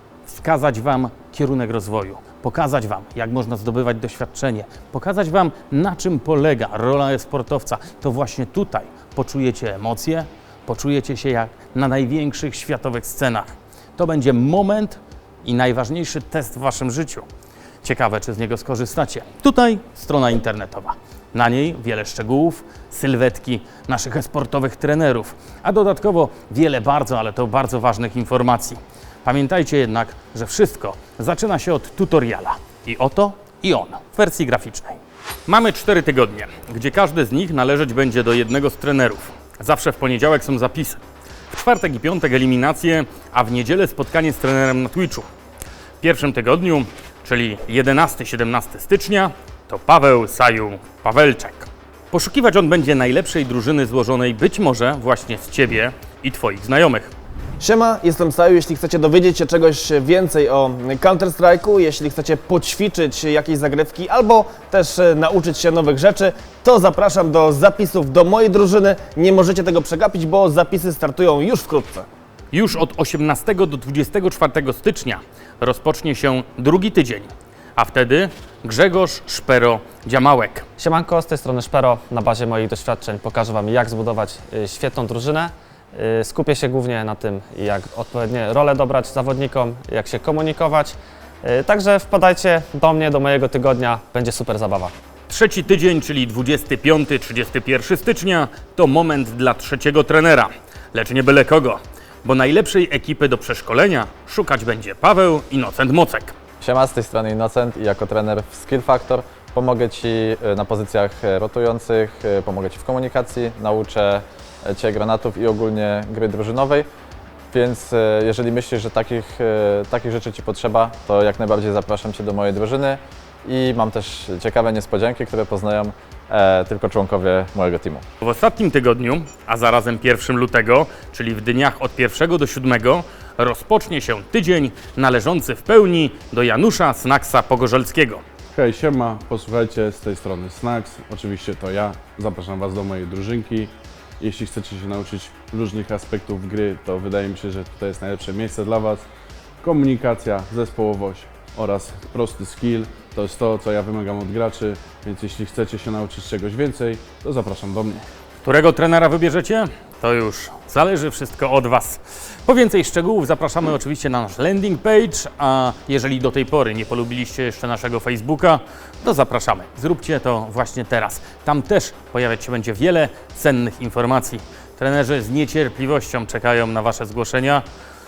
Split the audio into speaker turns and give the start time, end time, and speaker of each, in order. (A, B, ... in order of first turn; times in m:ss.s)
0:00.2-0:17.3 A
0:17.8-0:45.3 A
0:46.0-0:57.1 A
0:57.6-1:12.1 B
1:12.5-1:20.6 A
1:20.8-1:34.9 C
1:35.3-1:46.3 A
1:46.6-1:56.9 D
1:57.5-2:08.0 D
2:08.2-2:18.2 A
2:18.5-2:29.0 E
2:29.6-2:38.0 E
2:38.4-2:57.6 A